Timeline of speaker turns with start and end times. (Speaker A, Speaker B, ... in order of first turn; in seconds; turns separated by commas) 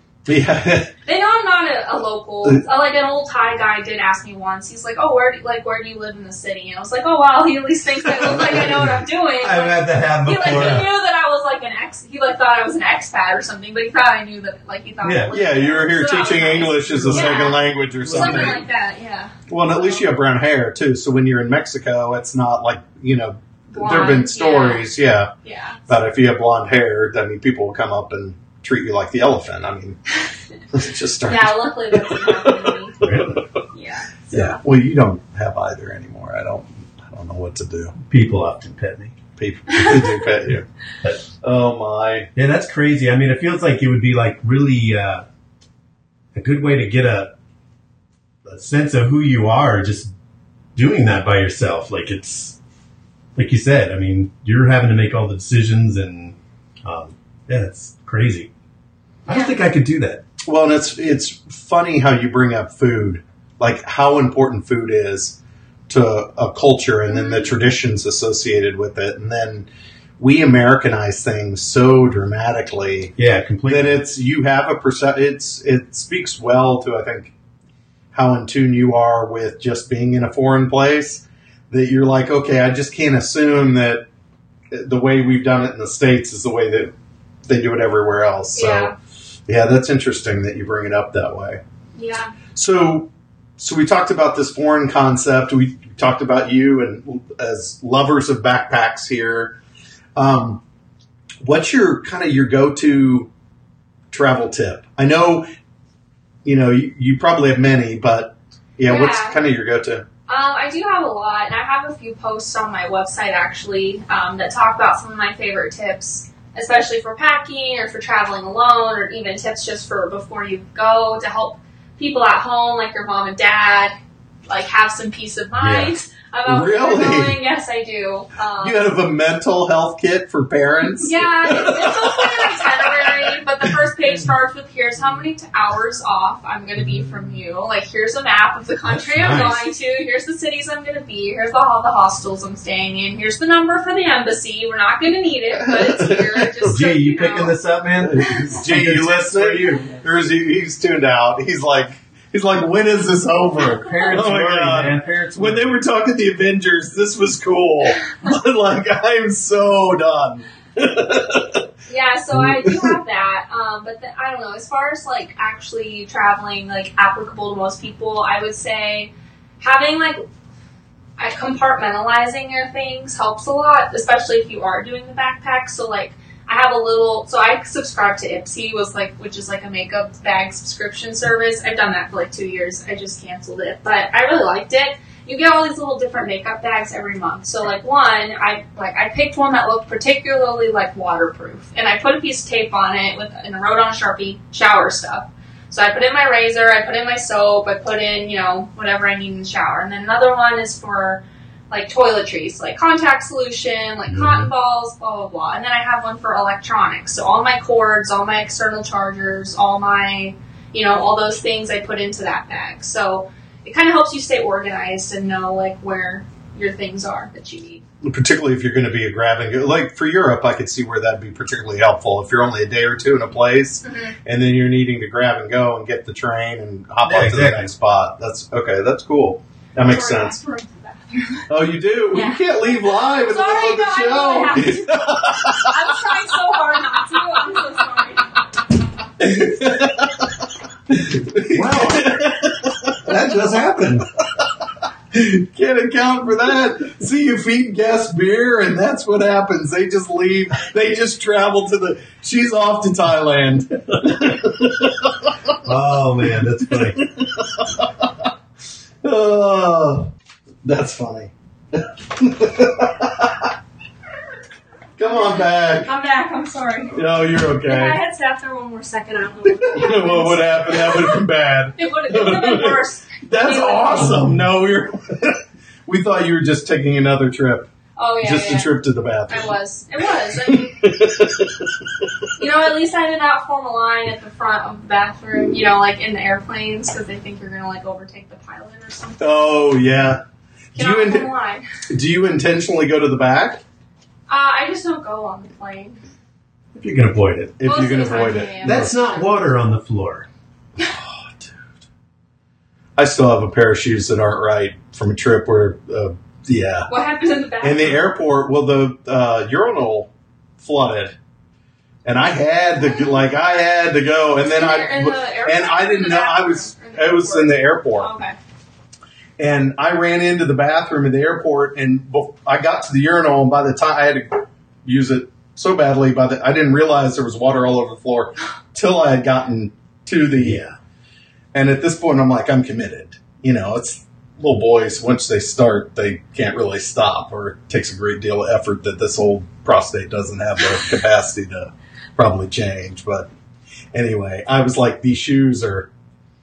Speaker A: 0.2-0.9, Speaker B: 1.0-19.4, Speaker C: 8.0-10.9, Speaker C: 15.0-15.3, Speaker A: 15.3-18.6, Speaker C: 16.9-17.4, Speaker C: 18.0-18.6, Speaker A: 19.5-25.3, Speaker B: 23.7-24.8, Speaker B: 25.4-25.8, Speaker A: 25.9-30.0, Speaker A: 30.7-33.6, Speaker B: 31.3-33.0, Speaker C: 33.0-33.4, Speaker B: 33.7-34.6, Speaker A: 34.3-37.9, Speaker C: 38.0-39.1, Speaker A: 39.4-40.7, Speaker B: 39.7-40.1, Speaker A: 41.4-42.3, Speaker C: 42.3-45.2, Speaker C: 46.3-47.3, Speaker C: 48.4-50.1, Speaker C: 50.8-52.6, Speaker C: 53.4-58.5, Speaker C: 59.2-60.2, Speaker B: 59.3-59.5, Speaker A: 60.4-69.7, Speaker B: 67.1-67.5, Speaker A: 70.2-73.1, Speaker C: 73.2-74.0, Speaker A: 73.7-77.3, Speaker A: 78.1-84.0, Speaker A: 84.7-86.9, Speaker A: 87.5-88.9, Speaker B: 88.5-88.9, Speaker A: 89.5-91.6, Speaker B: 91.9-92.3, Speaker A: 92.5-99.6, Speaker A: 100.2-100.6, Speaker A: 101.4-103.3, Speaker A: 104.1-105.5, Speaker A: 106.4-110.0, Speaker B: 108.8-109.4, Speaker B: 110.3-128.8, Speaker C: 125.6-125.9, Speaker A: 126.4-127.4, Speaker A: 128.6-132.8, Speaker B: 131.0-147.6, Speaker C: 138.8-139.7, Speaker A: 145.5-146.7, Speaker C: 146.6-149.8, Speaker A: 148.0-161.6, Speaker B: 153.6-154.2, Speaker C: 153.8-155.8, Speaker B: 161.9-170.2, Speaker A: 162.3-162.9, Speaker B: 171.2-217.8, Speaker C: 204.1-204.5, Speaker A: 218.0-230.4, Speaker B: 223.8-224.1, Speaker C: 227.0-227.7, Speaker B: 229.8-231.5, Speaker A: 231.5-235.7, Speaker B: 232.1-238.4, Speaker A: 239.2-240.1, Speaker A: 240.9-242.3, Speaker C: 241.5-243.2, Speaker A: 243.0-244.1, Speaker A: 245.1-255.1, Speaker C: 255.6-257.0, Speaker A: 256.7-257.9, Speaker A: 259.0-260.1, Speaker A: 260.6-263.5, Speaker A: 265.0-265.9, Speaker B: 265.0-267.0, Speaker A: 266.9-268.0, Speaker B: 267.6-271.2, Speaker A: 269.5-277.7, Speaker B: 271.8-274.3, Speaker C: 274.1-274.4, Speaker B: 278.0-278.7, Speaker A: 278.2-279.5, Speaker B: 279.3-280.8, Speaker A: 280.4-281.5, Speaker B: 282.4-289.4, Speaker A: 289.2-290.2, Speaker A: 290.7-291.3, Speaker B: 290.7-291.6, Speaker A: 291.9-293.6, Speaker B: 294.3-296.0, Speaker C: 296.7-297.6, Speaker A: 297.6-298.9, Speaker B: 297.6-299.4, Speaker C: 298.6-300.3, Speaker A: 302.9-306.9, Speaker B: 306.9-308.0, Speaker A: 307.6-311.1, Speaker A: 312.0-318.1, Speaker B: 314.5-318.4, Speaker A: 319.4-330.6, Speaker C: 330.4-330.8, Speaker A: 331.5-343.3, Speaker A: 343.9-345.9